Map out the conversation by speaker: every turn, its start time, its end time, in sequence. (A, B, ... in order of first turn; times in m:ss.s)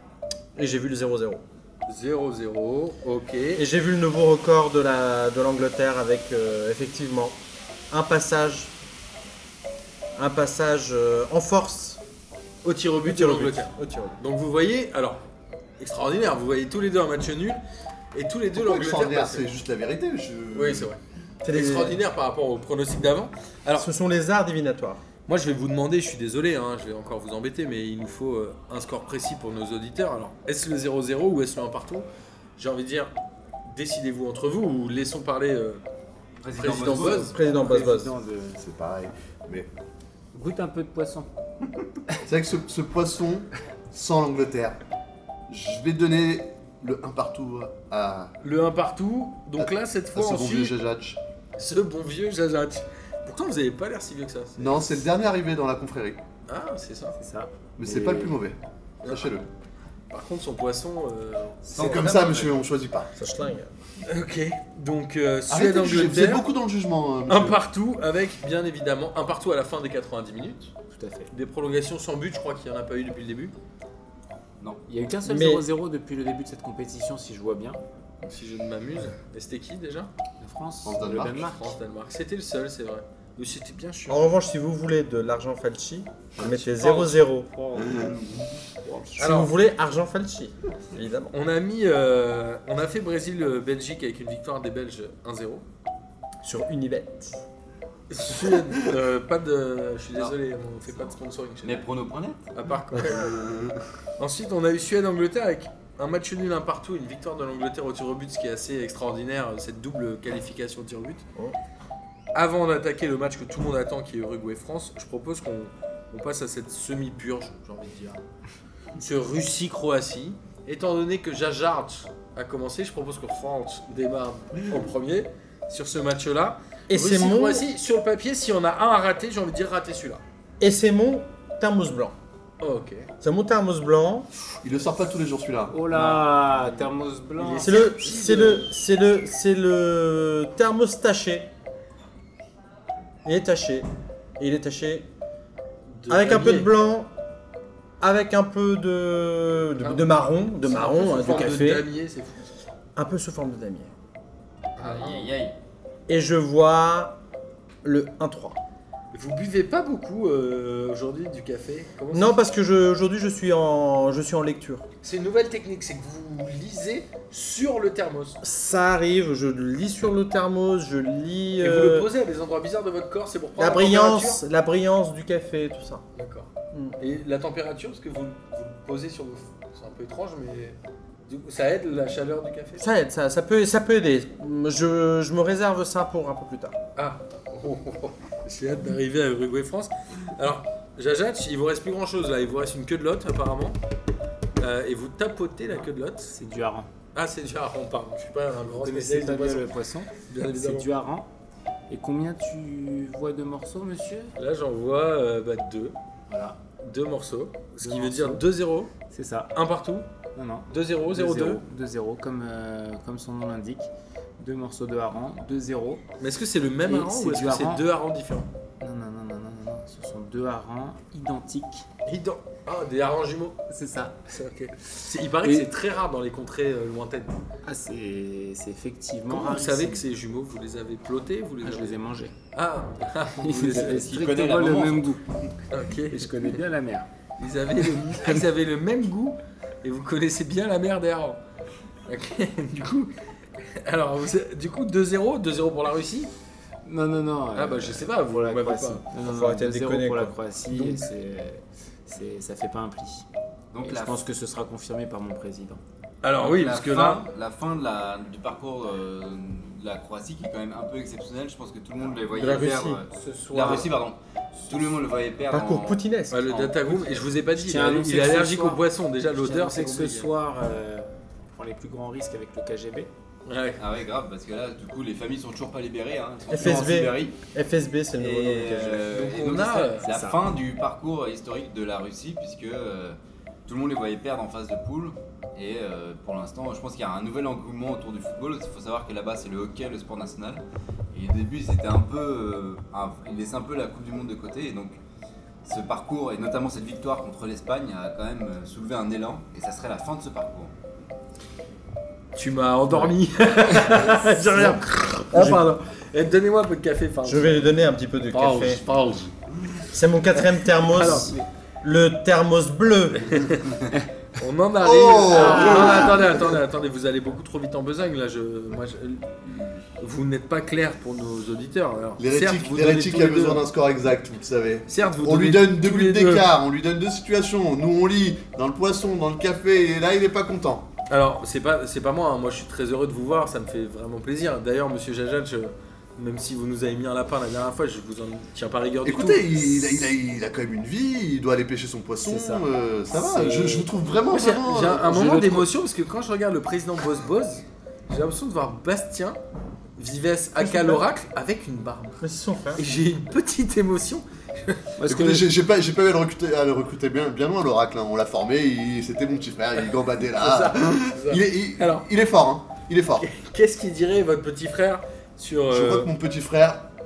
0:00.6-0:01.4 A
0:01.9-0:03.6 B
0:03.6-0:07.4 A
0:07.9-0:08.7 A
0:10.2-0:12.0 A
0:12.6-0:15.2 B
0:13.0-0:14.2 A
0:15.8-0:17.6 B
0:18.1-0:19.5 B
0:18.5-0:20.9 C
0:20.5-0:23.9 B
0:21.4-0:22.0 A
0:23.8-0:25.0 A
0:25.2-0:32.0 B
0:32.6-0:33.1 B
0:33.6-0:35.8 B
0:36.4-0:37.3 D
0:36.5-0:37.3 B
0:36.7-0:38.1 A
0:37.4-0:38.6 E
0:38.6-0:39.7 C
0:40.3-0:41.3 E
0:42.2-0:44.8 C
0:45.5-0:48.4 C
0:48.4-0:50.7 B
0:49.6-0:51.2 C
0:51.6-0:54.8 B
0:54.6-0:56.2 C
0:56.5-0:57.2 B
0:57.2-0:58.4 E
0:57.8-0:59.5 C
1:00.1-1:02.0 B
1:01.7-1:02.6 D
1:01.7-1:03.1 C
1:03.2-1:03.7 A
1:04.0-1:06.4 B
1:05.5-1:07.6 C
1:07.3-1:10.7 B
1:10.9-1:11.3 E
1:11.3-1:13.5 B
1:14.9-1:17.8 E
1:15.2-1:15.6 A
1:18.2-1:20.1 B
1:20.4-1:21.8 E
1:20.8-1:21.4 C
1:21.3-1:24.3 B
1:24.1-1:27.5 A
1:26.8-1:28.1 E
1:28.8-1:29.2 E
1:29.2-1:29.5 B
1:29.2-1:31.3 A
1:31.3-1:35.6 B
1:36.4-1:37.4 A
1:38.1-1:41.8 B
1:40.9-1:42.5 D
1:42.5-1:43.3 B
1:43.0-1:43.8 C
1:44.2-1:51.2 B
1:52.3-1:58.2 B
1:59.0-2:10.2 B
2:06.9-2:07.7 A
2:10.6-2:12.1 A
2:12.6-2:13.1 B
2:13.2-2:14.3 A
2:14.6-2:15.8 C
2:15.7-2:17.9 E
2:15.9-2:16.8 B
2:17.4-2:18.7 B
2:17.6-2:21.5 A
2:23.2-2:23.9 A
2:24.4-2:25.0 A
2:25.9-2:26.7 B
2:26.1-2:27.1 A
2:28.0-2:31.9 A
2:29.8-2:32.5 B
2:33.0-2:33.9 A
2:34.8-2:35.3 B
2:34.8-2:35.6 D
2:36.1-2:37.2 A
2:37.8-2:38.6 A
2:39.1-2:42.4 B
2:42.1-2:44.8 A
2:45.0-2:48.4 B
2:48.4-2:52.1 A
2:51.6-2:54.4 B
2:53.6-2:56.0 A
2:56.2-2:56.5 B
2:57.0-3:02.8 B
3:02.8-3:06.8 A
3:07.0-3:13.8 B
3:14.6-3:16.3 B
3:16.3-3:16.9 E
3:17.1-3:19.7 B
3:18.7-3:21.3 E
3:20.3-3:20.9 B
3:21.9-3:24.3 E
3:24.4-3:25.9 B
3:26.3-3:26.6 E
3:26.7-3:28.9 B
3:27.8-3:28.4 E
3:29.1-3:29.5 E
3:29.5-3:30.0 B
3:30.4-3:36.0 E
3:30.7-3:31.6 B
3:36.2-3:38.5 B
3:36.8-3:37.8 E
3:38.8-3:41.8 E
3:42.0-3:43.6 B
3:43.7-3:44.2 E
3:44.3-3:47.4 B
3:45.0-3:45.7 E
3:47.6-3:50.0 E
3:49.3-3:52.0 B
3:51.6-3:52.3 E
3:52.5-3:54.0 B
3:53.4-3:55.2 E
3:53.5-3:55.5 D
3:55.7-3:56.5 B
3:56.1-3:57.1 E
3:57.4-4:01.4 B
4:02.1-4:06.3 B
4:06.8-4:13.2 E
4:07.5-4:09.1 B
4:09.2-4:10.4 A
4:10.7-4:11.0 B
4:13.7-4:14.2 D
4:13.8-4:15.8 E
4:16.2-4:17.2 B
4:16.4-4:27.3 D
4:22.3-4:23.0 A
4:23.1-4:23.9 E
4:25.5-4:26.4 A
4:26.3-4:30.3 B
4:27.5-4:33.1 E
4:33.4-4:33.8 B
4:33.8-4:37.4 D
4:36.5-4:39.1 A
4:38.2-4:55.0 D
4:39.1-4:40.0 B
4:40.0-4:40.4 E
4:55.6-5:00.7 D
5:02.3-5:07.7 B
5:05.3-5:05.6 A
5:07.2-5:08.8 A
5:08.3-5:09.3 B
5:09.9-5:13.4 A
5:10.4-5:11.4 B
5:13.2-5:13.8 B
5:14.4-5:23.6 B
5:14.8-5:16.6 C
5:15.3-5:16.2 E
5:22.2-5:30.9 C
5:24.9-5:26.5 B
5:31.1-5:40.0 B
5:39.0-5:45.4 C
5:42.2-5:43.9 E
5:44.3-5:49.4 B
5:45.1-5:45.6 E
5:50.0-5:52.2 B
5:50.6-5:51.0 A
5:52.2-5:52.8 A
5:52.8-5:54.8 B
5:55.0-5:55.5 E
5:55.0-6:03.3 C
6:00.4-6:02.0 B
6:03.2-6:06.1 B
6:05.7-6:06.9 C